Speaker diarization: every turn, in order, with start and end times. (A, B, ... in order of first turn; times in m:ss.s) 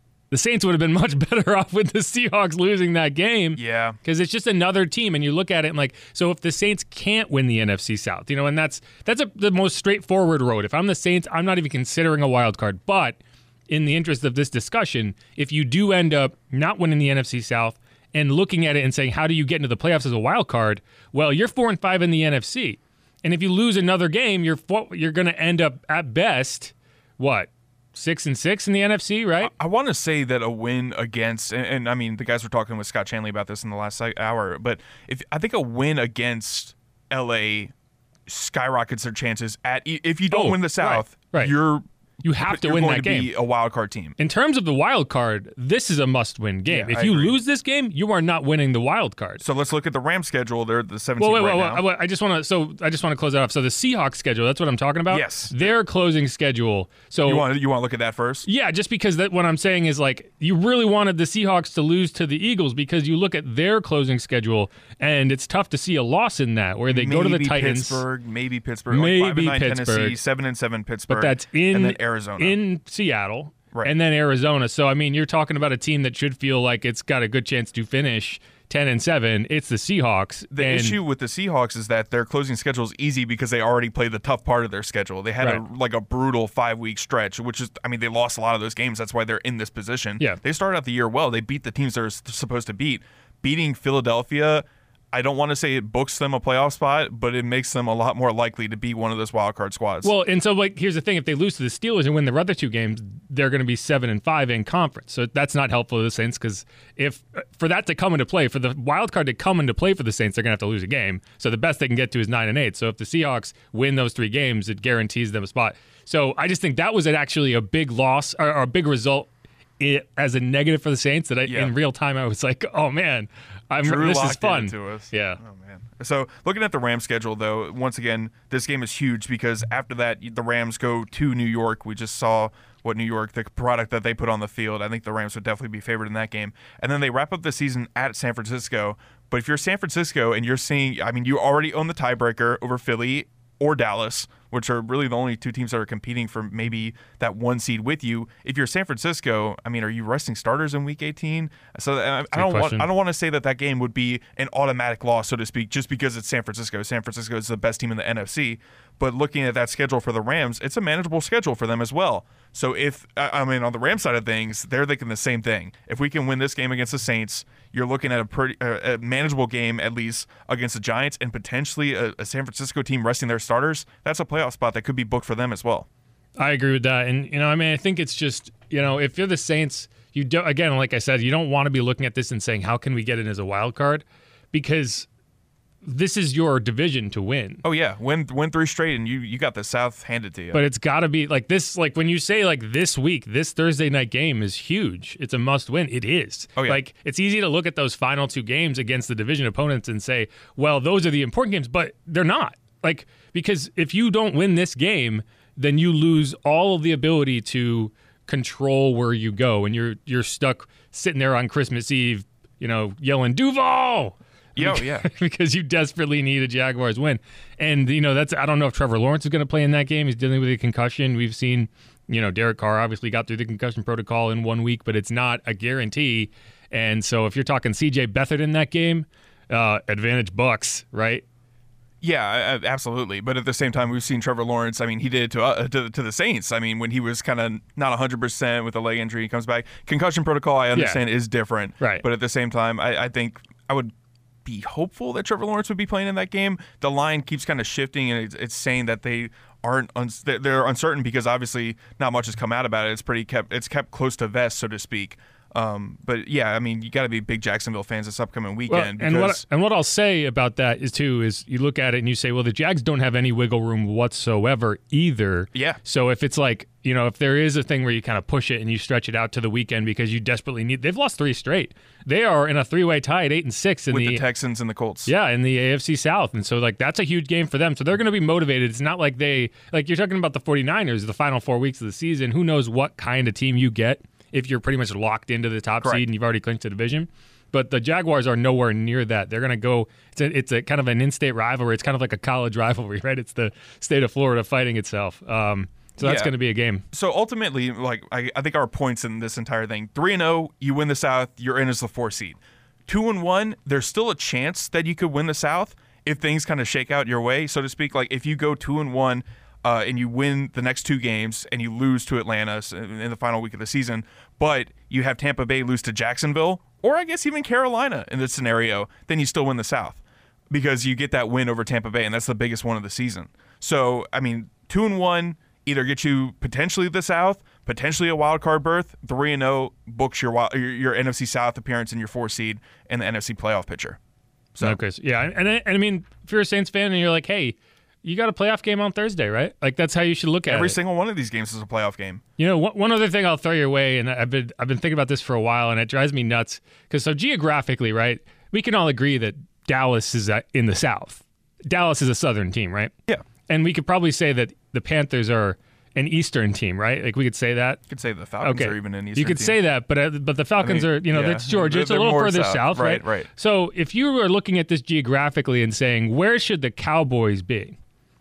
0:00.3-0:13.2 A
0:03.6-0:04.0 B
0:13.7-0:29.5 A
0:29.4-0:37.7 B
0:38.3-0:41.8 B
0:40.3-0:41.5 A
0:42.2-0:43.3 A
0:42.4-0:44.2 B
0:44.2-0:49.4 A
0:46.7-0:47.3 B
0:49.4-0:51.8 B
0:51.2-0:57.5 A
0:55.1-0:55.7 B
0:57.2-0:58.5 B
0:58.4-1:08.0 A
1:06.9-1:12.6 B
1:08.9-1:10.2 A
1:11.1-1:21.0 A
1:20.5-1:40.1 B
1:40.0-2:05.4 A
2:01.5-2:01.7 B
2:03.8-2:55.9 B
2:32.3-2:32.9 A
2:56.4-3:05.1 A
3:05.8-3:07.6 A
3:07.6-3:10.6 B
3:10.5-3:51.2 A
3:16.6-3:16.8 B
3:34.6-3:35.1 B
3:52.0-4:03.9 B
4:00.7-4:01.0 A
4:01.8-4:02.0 A
4:04.4-4:19.4 B
4:18.7-4:34.2 A
4:25.5-4:25.8 B
4:33.9-4:35.1 B
4:35.0-4:56.8 A
4:56.0-4:56.3 B
4:56.9-5:34.0 B
5:34.5-5:34.8 B
5:34.6-5:40.8 A
5:40.5-5:42.2 B
5:42.4-5:52.9 A
5:53.5-5:57.8 A
5:57.9-5:59.6 B
5:58.4-6:07.8 A
6:00.6-6:03.3 B